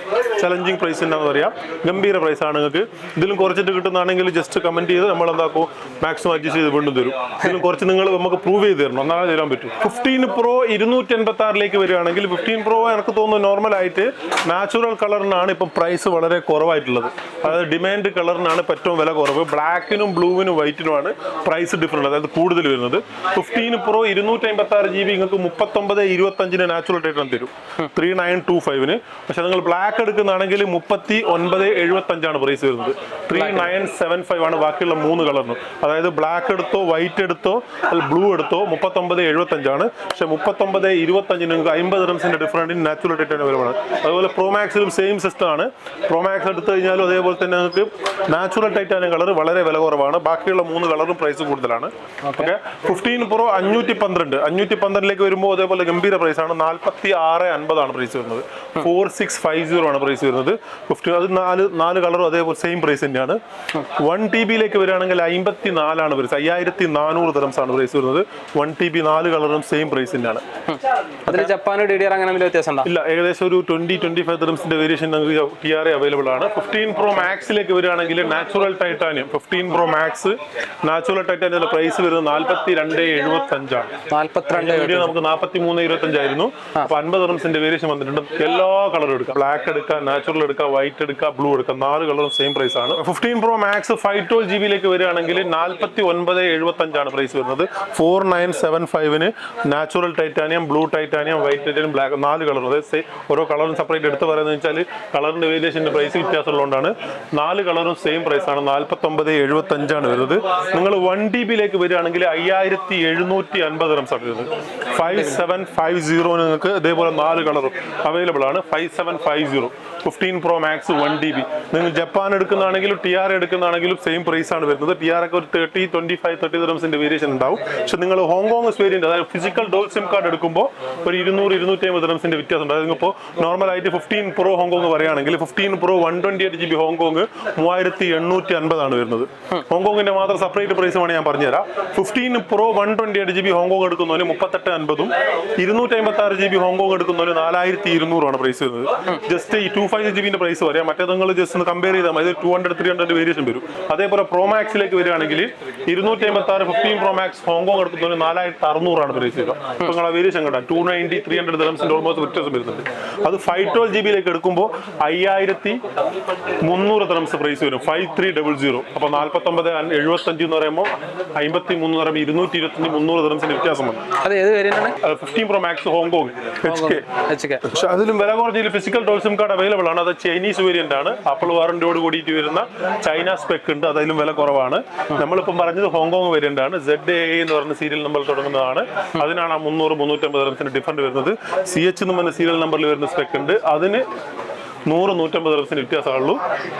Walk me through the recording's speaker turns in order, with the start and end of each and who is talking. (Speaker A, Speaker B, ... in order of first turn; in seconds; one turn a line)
Speaker A: 0.3-70.4
Speaker B: 33.3-33.7
Speaker B: 52.2-52.5
Speaker B: 70.7-72.9
Speaker A: 71.3-71.5
Speaker A: 72.8-83.9
Speaker B: 84.1-85.1
Speaker A: 84.5-165.8
Speaker A: 166.6-174.1
Speaker B: 174.2-175.0
Speaker A: 175.0-177.0
Speaker B: 176.6-177.6
Speaker A: 177.6-194.0
Speaker A: 194.9-196.4